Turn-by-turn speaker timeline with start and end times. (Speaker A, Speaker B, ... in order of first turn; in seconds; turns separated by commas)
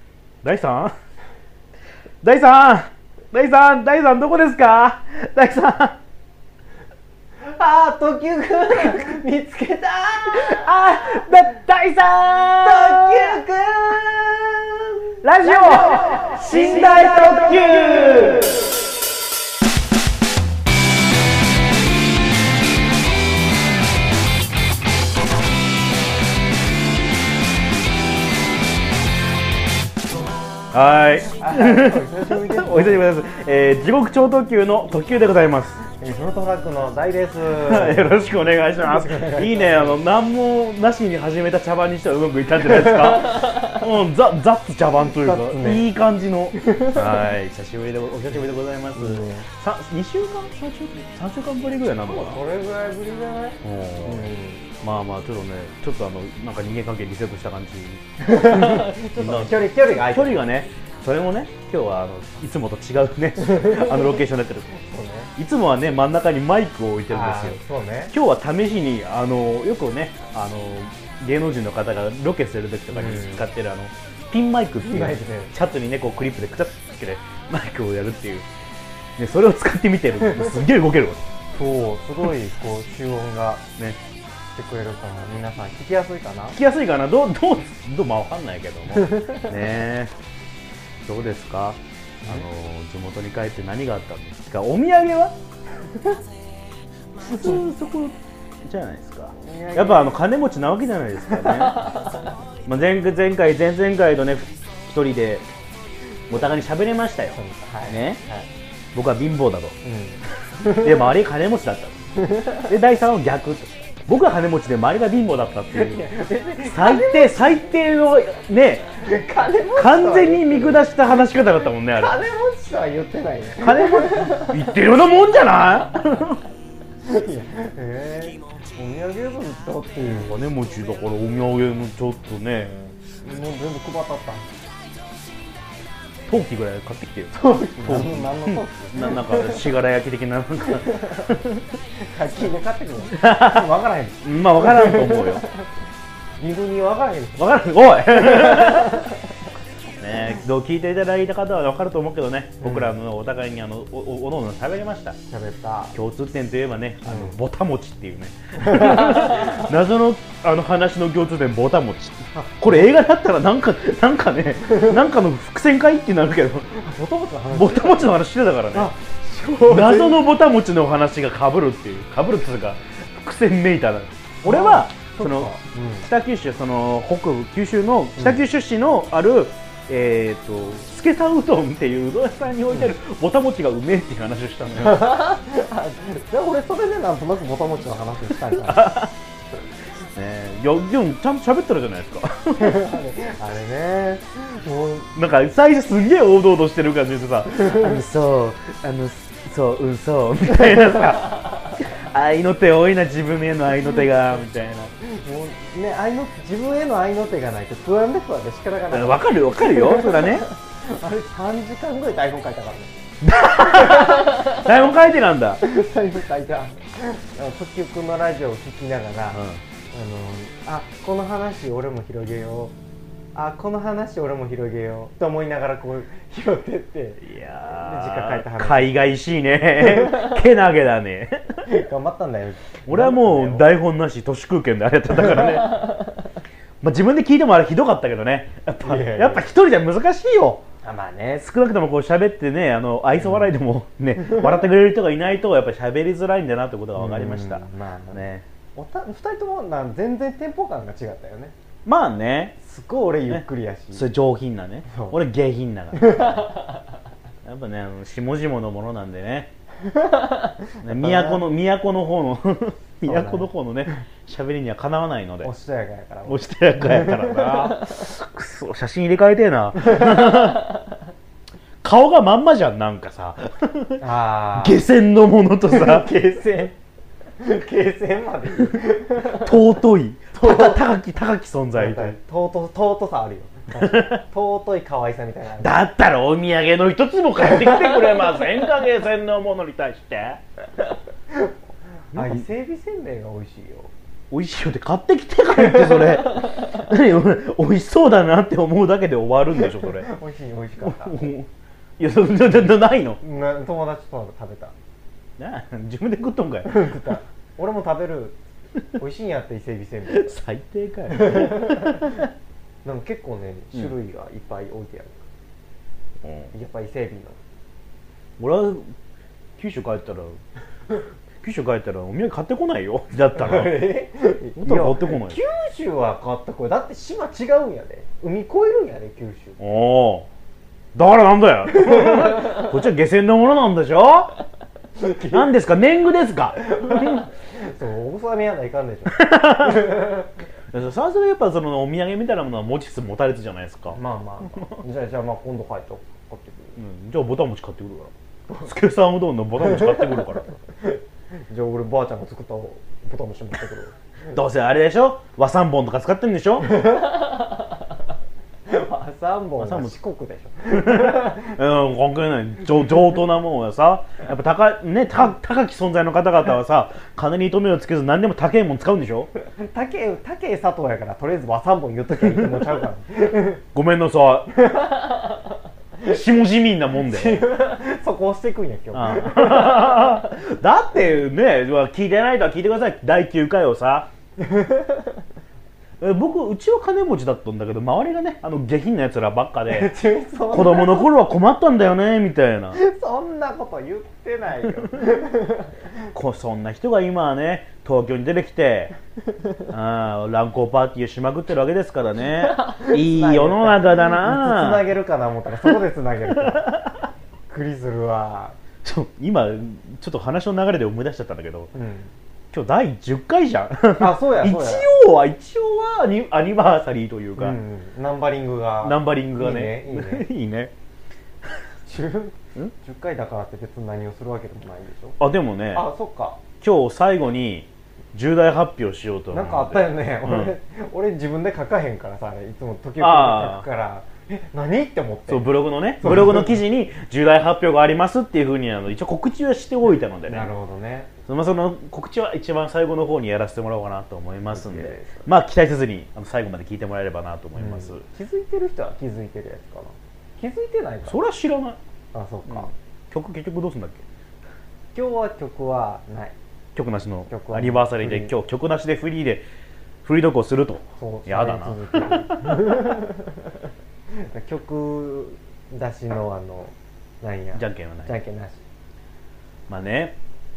Speaker A: 0.4-0.9, Speaker A: 2.2-6.0, Speaker B: 7.4-11.5, Speaker A: 10.3-13.4, Speaker B: 12.5-18.6, Speaker A: 15.2-18.6, Speaker A: 30.7-35.8, Speaker B: 31.4-33.1, Speaker B: 35.8-40.0, Speaker A: 37.5-52.4, Speaker B: 42.6-43.6, Speaker B: 45.0-45.9, Speaker B: 46.5-47.2, Speaker B: 48.9-49.5, Speaker B: 52.0-54.8, Speaker A: 53.6-54.3, Speaker A: 54.8-64.8, Speaker B: 58.2-60.4, Speaker B: 63.4-65.3, Speaker A: 65.3-67.6, Speaker B: 67.1-68.1, Speaker A: 68.1-78.5, Speaker B: 72.9-73.5, Speaker B: 74.8-75.5, Speaker A: 79.2-81.2, Speaker B: 81.5-83.7, Speaker B: 84.5-86.6, Speaker A: 86.5-90.1, Speaker B: 88.9-89.5, Speaker A: 91.0-95.3, Speaker B: 95.9-96.2, Speaker A: 97.2-102.1, Speaker B: 97.3-97.6, Speaker B: 99.3-100.2, Speaker B: 101.3-102.0, Speaker A: 102.7-105.5, Speaker A: 106.3-108.2, Speaker B: 107.3-108.5, Speaker A: 108.9-109.8, Speaker B: 109.8-111.1, Speaker A: 110.6-116.0, Speaker B: 112.2-112.7, Speaker B: 115.7-117.7, Speaker A: 116.6-118.9, Speaker B: 118.9-120.8, Speaker A: 119.8-122.2, Speaker B: 122.0-124.7, Speaker A: 123.6-126.4, Speaker B: 127.0-130.4, Speaker A: 130.1-132.8, Speaker B: 133.1-134.5, Speaker A: 136.3-141.7, Speaker B: 137.3-139.7, Speaker B: 140.7-141.3, Speaker B: 142.0-145.7, Speaker A: 143.2-143.7, Speaker A: 144.2-145.4, Speaker B: 146.4-149.4, Speaker A: 147.4-149.1, Speaker A: 150.0-155.2, Speaker B: 152.6-152.9, Speaker B: 155.3-155.9, Speaker A: 155.9-166.8, Speaker B: 157.0-157.4, Speaker B: 158.6-159.7, Speaker B: 162.3-162.9, Speaker B: 166.7-168.2, Speaker A: 167.5-168.9, Speaker B: 168.7-170.2, Speaker A: 169.6-185.1, Speaker B: 174.4-176.1, Speaker B: 184.7-188.9, Speaker A: 188.5-189.1, Speaker A: 190.1-192.8, Speaker B: 192.6-195.1, Speaker A: 195.1-204.9, Speaker B: 197.6-197.8, Speaker B: 205.0-214.8, Speaker A: 208.9-210.5, Speaker A: 213.2-215.6, Speaker B: 215.6-222.7, Speaker A: 219.3-219.6, Speaker B: 223.3-229.0, Speaker A: 227.2-231.7, Speaker B: 229.8-230.4, Speaker B: 231.7-233.7, Speaker A: 232.9-236.0, Speaker B: 235.2-235.5, Speaker A: 236.8-240.6, Speaker B: 238.8-239.5, Speaker B: 240.8-241.4, Speaker A: 241.4-248.4, Speaker B: 243.2-243.5, Speaker B: 246.9-248.2, Speaker B: 248.7-251.5, Speaker A: 251.8-252.6, Speaker B: 252.6-254.1, Speaker A: 253.3-256.6, Speaker B: 254.9-255.2, Speaker B: 255.9-256.5, Speaker A: 257.4-259.5, Speaker A: 260.8-265.5, Speaker B: 260.8-261.4, Speaker B: 263.0-263.5, Speaker B: 265.4-267.9, Speaker A: 266.3-270.8, Speaker B: 270.0-270.2, Speaker A: 271.8-276.1, Speaker B: 274.0-274.8, Speaker B: 275.7-276.8, Speaker B: 277.4-279.6, Speaker A: 279.1-282.2, Speaker B: 280.4-280.8, Speaker B: 281.7-285.8, Speaker A: 283.7-284.2, Speaker A: 285.6-290.4, Speaker B: 292.1-293.9, Speaker A: 292.1-292.4, Speaker A: 294.3-300.1, Speaker B: 295.6-296.0, Speaker B: 299.6-301.3, Speaker A: 300.8-303.2, Speaker B: 303.2-304.7, Speaker A: 305.4-306.9, Speaker B: 306.6-308.4, Speaker B: 309.0-310.4, Speaker A: 310.1-312.3, Speaker B: 311.1-312.1, Speaker B: 312.8-315.3, Speaker A: 316.2-316.5, Speaker B: 316.5-317.4, Speaker A: 318.4-318.9, Speaker A: 319.6-320.4, Speaker A: 321.4-323.8, Speaker B: 323.3-329.6, Speaker A: 324.6-325.4, Speaker A: 329.6-330.3, Speaker A: 330.9-334.4, Speaker B: 331.7-332.7, Speaker B: 334.9-335.5, Speaker A: 335.3-337.2, Speaker B: 336.7-340.3, Speaker A: 339.1-340.1, Speaker A: 340.7-344.0, Speaker B: 343.9-346.8, Speaker A: 344.5-344.8, Speaker A: 346.8-350.6, Speaker B: 349.6-353.9, Speaker A: 354.3-356.8, Speaker B: 356.7-357.5, Speaker B: 358.6-361.6, Speaker A: 359.6-360.0, Speaker A: 360.7-369.3, Speaker B: 369.5-373.6, Speaker A: 373.7-374.6, Speaker B: 374.6-375.3, Speaker A: 376.0-377.5, Speaker B: 377.0-380.3, Speaker A: 378.9-384.1, Speaker B: 384.4-385.2, Speaker A: 386.0-389.9, Speaker B: 389.7-391.1, Speaker A: 390.5-392.8, Speaker B: 392.7-395.8, Speaker A: 396.1-398.9, Speaker A: 399.7-404.9, Speaker B: 402.4-406.7, Speaker A: 406.3-407.1, Speaker B: 407.5-408.6, Speaker A: 408.8-411.7, Speaker B: 411.7-412.1, Speaker A: 412.5-417.6, Speaker B: 414.0-414.9, Speaker B: 417.4-420.3, Speaker A: 418.8-420.7, Speaker B: 421.8-425.2, Speaker A: 425.2-425.9, Speaker B: 425.7-426.4, Speaker A: 426.6-430.5, Speaker B: 429.3-435.4, Speaker A: 433.0-433.6, Speaker A: 435.3-440.5, Speaker B: 436.0-436.5, Speaker B: 440.3-441.1, Speaker A: 441.3-448.1, Speaker B: 444.5-445.2, Speaker B: 447.6-451.2, Speaker A: 451.0-451.8, Speaker B: 452.1-452.7, Speaker A: 452.5-454.0, Speaker B: 454.9-456.3, Speaker A: 456.8-459.4, Speaker B: 457.3-458.3, Speaker A: 460.0-462.8, Speaker B: 461.0-468.6, Speaker A: 467.5-468.1, Speaker A: 469.7-470.1